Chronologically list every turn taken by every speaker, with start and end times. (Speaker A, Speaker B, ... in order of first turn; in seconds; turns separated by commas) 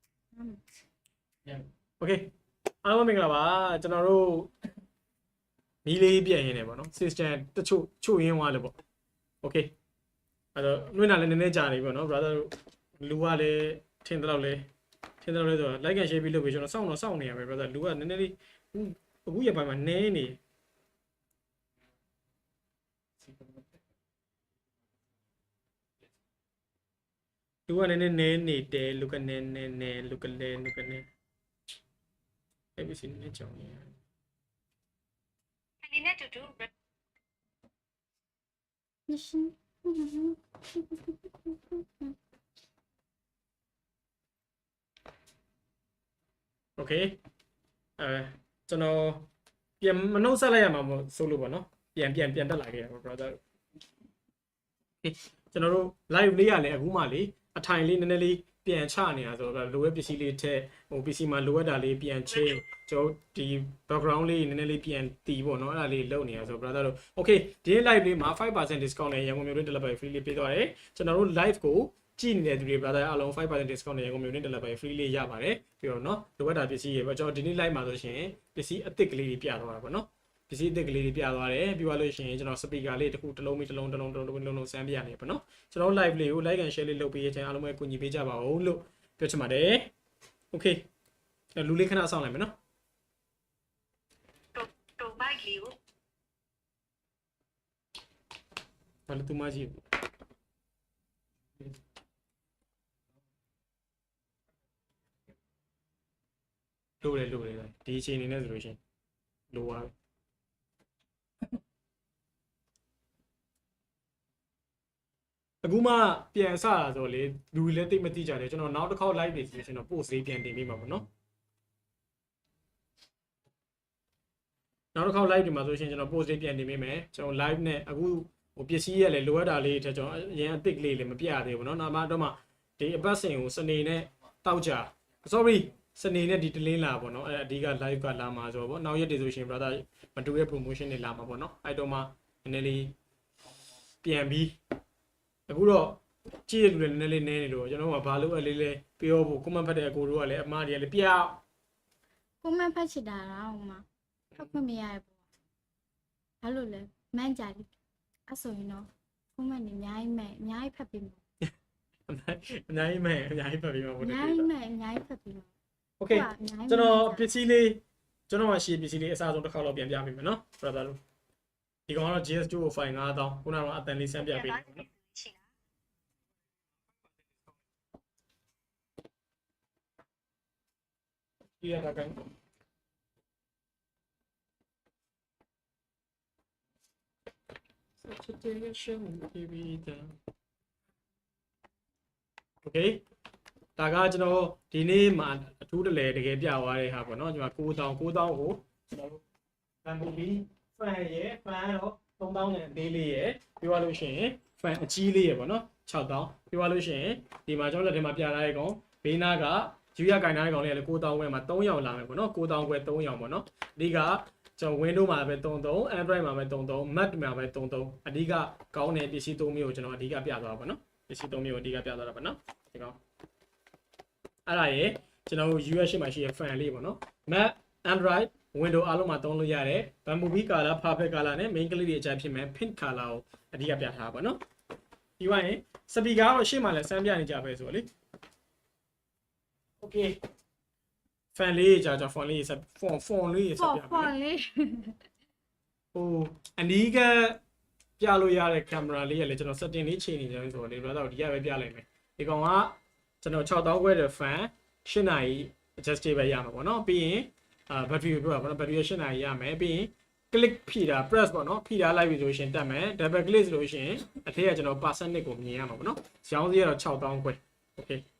Speaker A: 1.5-2.3, Speaker A: 2.8-4.5, Speaker A: 5.8-8.7, Speaker A: 9.4-9.7, Speaker A: 10.5-14.7, Speaker A: 15.2-20.4, Speaker A: 27.7-31.1, Speaker A: 32.8-33.9, Speaker B: 35.8-36.7, Speaker C: 39.1-42.1, Speaker A: 46.8-47.2, Speaker A: 48.0-49.3, Speaker A: 49.8-53.4, Speaker A: 55.0-89.9, Speaker A: 90.5-90.8, Speaker A: 91.5-92.5, Speaker B: 94.5-95.7, Speaker A: 99.1-99.8, Speaker A: 107.0-108.8, Speaker A: 109.5-109.9, Speaker A: 115.6-121.0, Speaker A: 124.9-142.9, Speaker A: 144.0-144.5, Speaker A: 145.5-151.4, Speaker C: 152.4-155.1, Speaker C: 156.4-157.7, Speaker C: 158.3-161.2, Speaker A: 162.1-164.5, Speaker C: 164.0-165.5, Speaker A: 166.0-171.0, Speaker C: 166.1-167.3, Speaker A: 171.9-174.9, Speaker B: 174.4-175.4, Speaker A: 181.6-182.2, Speaker A: 188.0-190.1, Speaker A: 192.6-193.0, Speaker A: 193.8-199.2, Speaker A: 199.8-223.0, Speaker A: 224.5-234.4, Speaker A: 235.2-237.9, Speaker A: 239.8-240.2, Speaker A: 241.3-244.1, Speaker C: 243.6-245.0, Speaker A: 245.9-247.4, Speaker A: 248.0-268.0